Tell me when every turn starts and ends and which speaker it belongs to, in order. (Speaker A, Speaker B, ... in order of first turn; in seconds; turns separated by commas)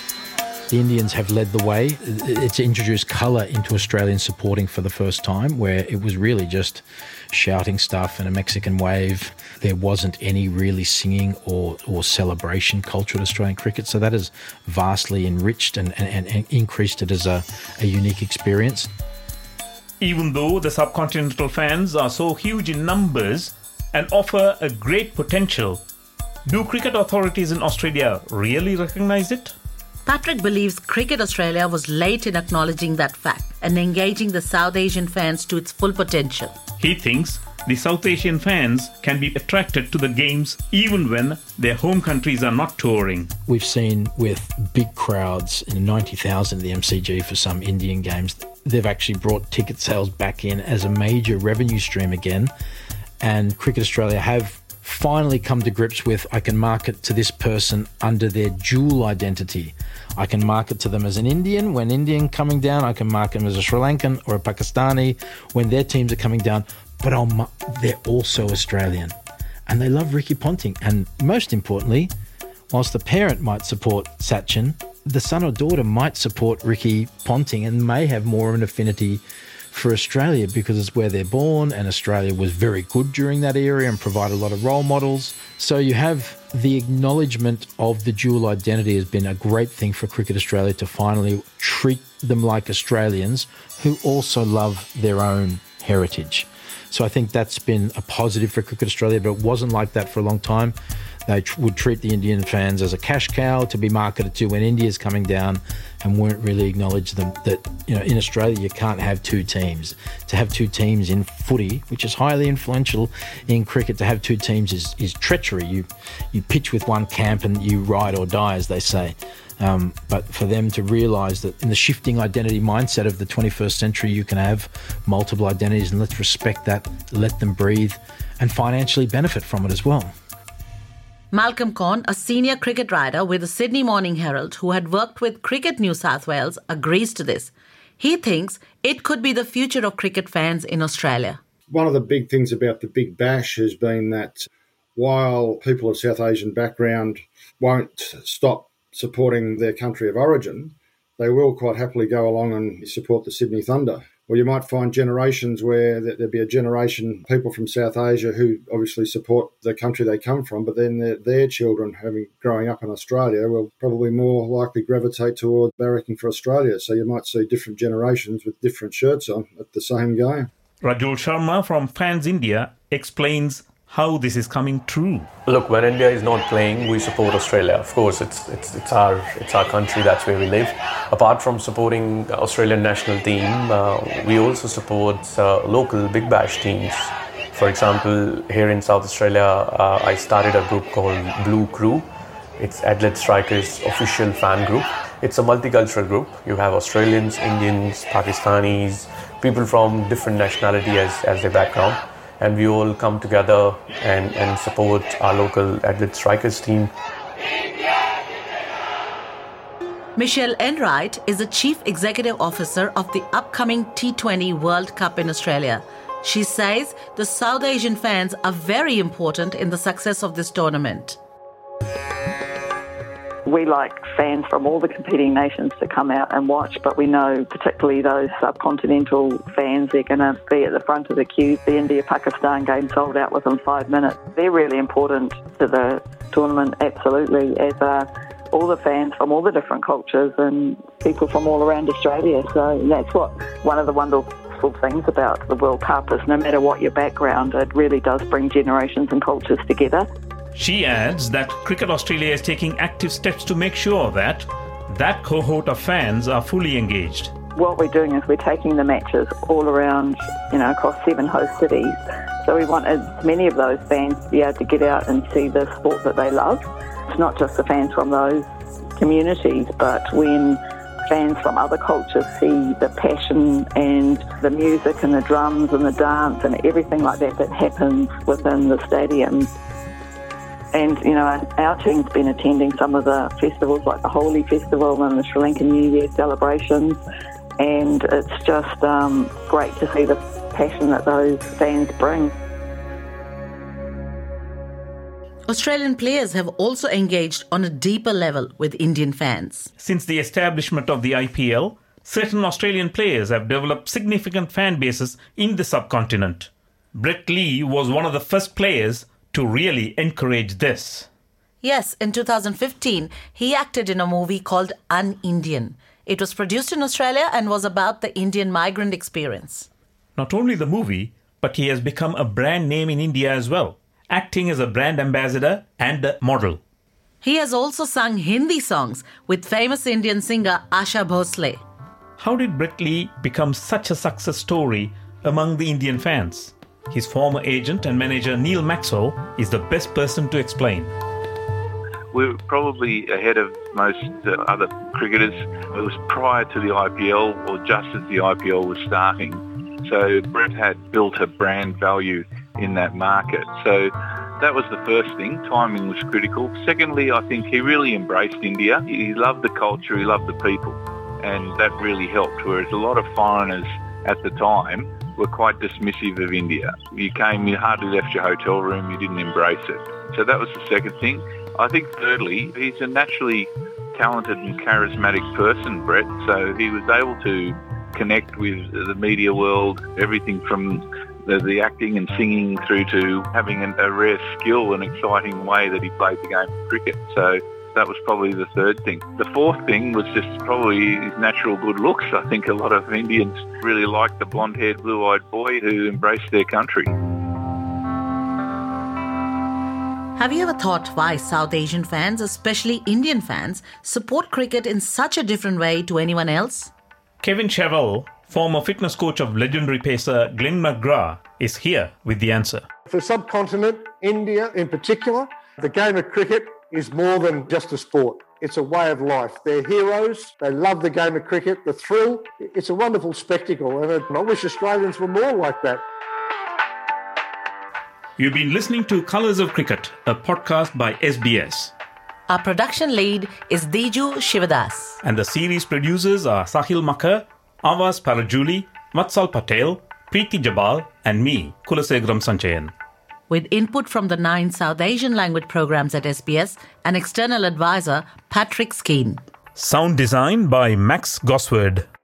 Speaker A: 0.7-18.9, Speaker B: 20.0-25.8, Speaker B: 26.4-29.5, Speaker C: 30.1-36.5, Speaker B: 36.8-43.3, Speaker A: 43.5-52.5, Speaker A: 53.2-69.1, Speaker A: 69.7-72.1, Speaker A: 72.7-100.7, Speaker A: 101.2-130.1, Speaker C: 131.3-141.4, Speaker D: 141.7-170.5, Speaker B: 170.8-175.3, Speaker E: 175.5-206.9, Speaker C: 210.2-221.2, Speaker F: 223.4-250.1, Speaker B: 250.5-257.3, Speaker F: 257.5-268.4, Speaker F: 269.0-279.5, Speaker F: 280.7-287.0, Speaker F: 287.6-292.3, Speaker C: 295.5-299.7, Speaker B: 299.8-311.1, Speaker C: 311.6-319.7, Speaker B: 320.2-326.6, Speaker C: 327.2-331.6, Speaker B: 332.2-340.9, Speaker G: 342.1-396.9, Speaker C: 400.1-406.7, Speaker B: 407.2-412.6, Speaker H: 412.9-425.8, Speaker B: 428.2-431.7, Speaker C: 432.3-435.0, Speaker B: 435.0-442.7, Speaker C: 443.3-449.2, Speaker B: 449.6-451.9